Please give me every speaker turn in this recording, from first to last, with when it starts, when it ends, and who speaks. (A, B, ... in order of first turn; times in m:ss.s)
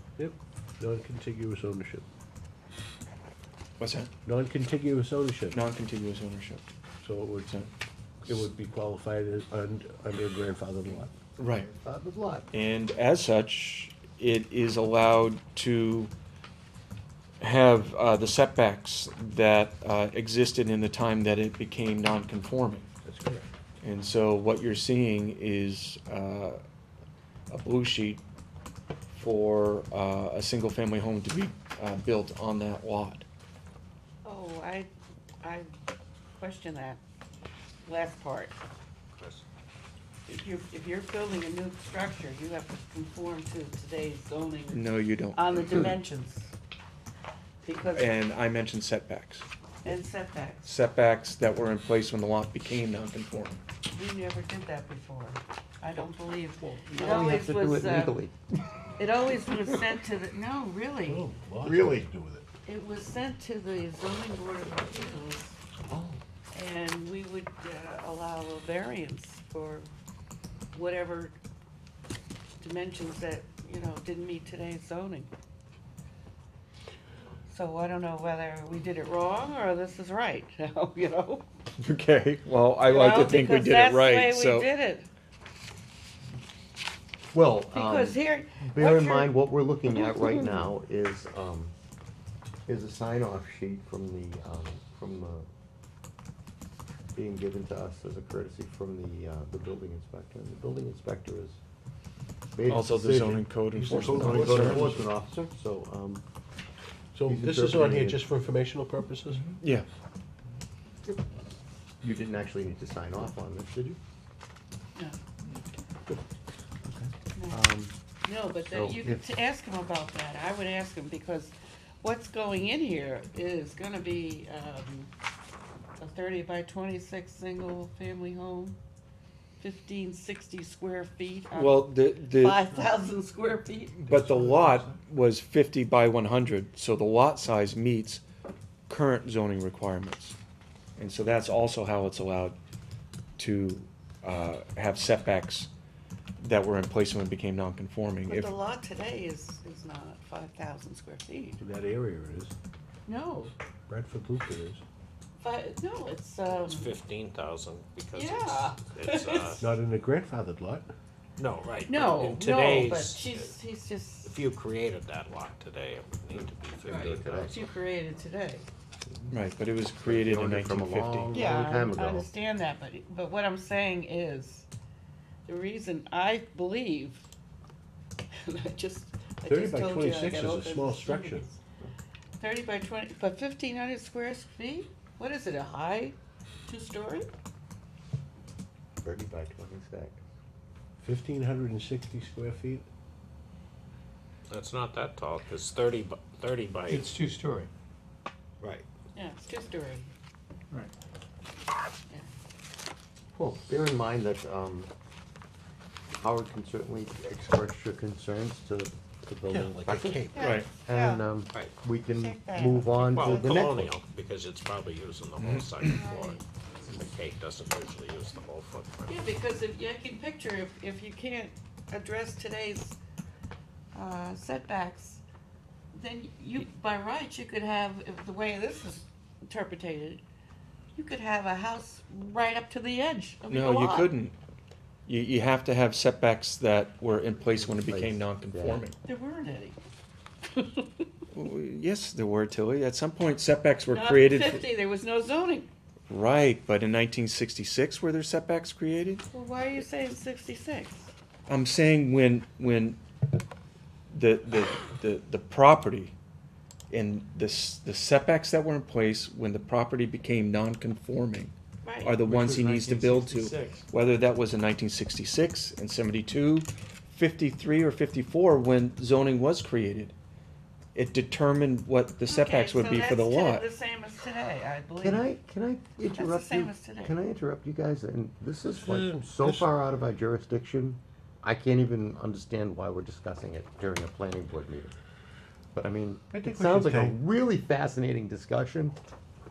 0:00.2-0:02.0 A
0:03.8-0:04.1 B
0:04.3-0:05.6 A
0:05.5-0:06.6 B
0:07.0-0:07.6 A
0:08.3-0:11.1 A
0:11.4-0:11.7 B
0:11.4-0:12.5 C
0:12.5-0:16.1 B
0:17.4-0:22.9 B
0:23.1-0:23.5 A
0:23.8-0:26.6 B
0:27.5-0:28.2 B
0:29.1-0:33.2 B
0:34.2-0:34.9 D
0:35.4-0:35.7 D
0:36.4-0:37.0 D
0:37.8-0:38.6 D
0:39.2-0:39.4 E
0:40.3-0:46.5 D
0:44.7-0:45.9 B
0:47.6-0:48.1 D
0:47.9-0:49.5 B
0:49.8-0:50.7 D
0:50.6-0:53.6 B
0:53.9-0:58.2 D
0:56.9-0:58.6 C
0:59.0-1:01.3 D
1:01.1-1:02.4 A
1:01.6-1:02.0 C
1:02.7-1:05.6 D
1:05.9-1:06.2 C
1:06.5-1:09.9 D
1:10.7-1:11.4 D
1:12.6-1:15.3 D
1:17.5-1:21.4 D
1:21.8-1:24.7 B
1:22.8-1:25.1 D
1:27.3-1:31.7 C
1:27.7-1:29.4 D
1:30.0-1:30.5 D
1:32.7-1:35.5 C
1:37.2-1:41.6 C
1:42.5-1:46.2 C
1:42.7-1:44.9 B
1:43.8-1:45.0 A
1:47.1-1:49.4 A
1:47.3-1:48.2 C
1:49.6-1:49.9 B
1:52.0-1:54.0 C
1:56.8-1:57.9 C
1:57.4-1:57.6 D
1:58.3-2:05.1 D
1:58.7-1:59.2 C
2:06.0-2:08.8 D
2:09.6-2:14.0 D
2:11.5-2:12.7 B
2:14.0-2:18.2 B
2:14.1-2:14.6 A
2:18.9-2:20.4 B
2:21.0-2:22.6 B
2:23.4-2:25.7 B
2:26.4-2:28.5 B
2:28.3-2:31.6 D
2:31.6-2:32.5 A
2:33.1-2:33.5 D
2:33.9-2:34.8 A
2:35.4-2:36.9 D
2:36.5-2:39.6 E
2:38.1-2:39.6 D
2:39.6-2:40.8 A
2:41.4-2:43.6 E
2:41.9-2:44.4 D
2:44.2-2:47.5 E
2:46.3-2:47.6 C
2:46.9-2:48.7 D
2:49.0-2:49.4 C
2:49.3-2:51.3 B
2:50.0-2:52.3 C
2:51.3-2:54.7 D
2:55.5-2:57.3 D
2:58.3-3:01.6 D
2:59.5-3:01.5 A
3:02.4-3:06.2 D
3:06.7-3:07.3 D
3:09.0-3:10.2 C
3:11.0-3:12.8 A
3:14.5-3:17.2 E
3:19.2-3:20.1 D
3:23.4-3:24.9 C
3:26.2-3:34.0 C
3:29.5-3:30.5 A
3:30.3-3:31.2 D
3:32.1-3:33.7 D
3:33.1-3:39.2 E
3:35.4-3:35.7 B
3:35.8-3:36.4 D
3:39.1-3:43.0 D
3:43.9-3:45.2 D
3:45.9-3:50.2 D
3:51.0-3:54.2 D
3:53.5-3:54.4 B
3:55.1-3:59.0 B
3:57.5-3:58.9 C
3:59.0-3:59.8 D
4:00.6-4:00.8 D
4:01.3-4:04.6 B
4:03.9-4:05.7 D
4:06.1-4:09.2 B
4:09.3-4:11.1 D
4:11.5-4:13.0 B
4:14.1-4:16.1 B
4:16.9-4:30.1 B
4:21.8-4:22.2 D
4:22.3-4:23.8 E
4:31.0-4:33.7 B
4:32.3-4:35.3 D
4:35.0-4:44.9 C
4:36.1-4:37.2 D
4:38.8-4:39.7 A
4:45.7-4:49.0 C
4:46.4-4:47.2 A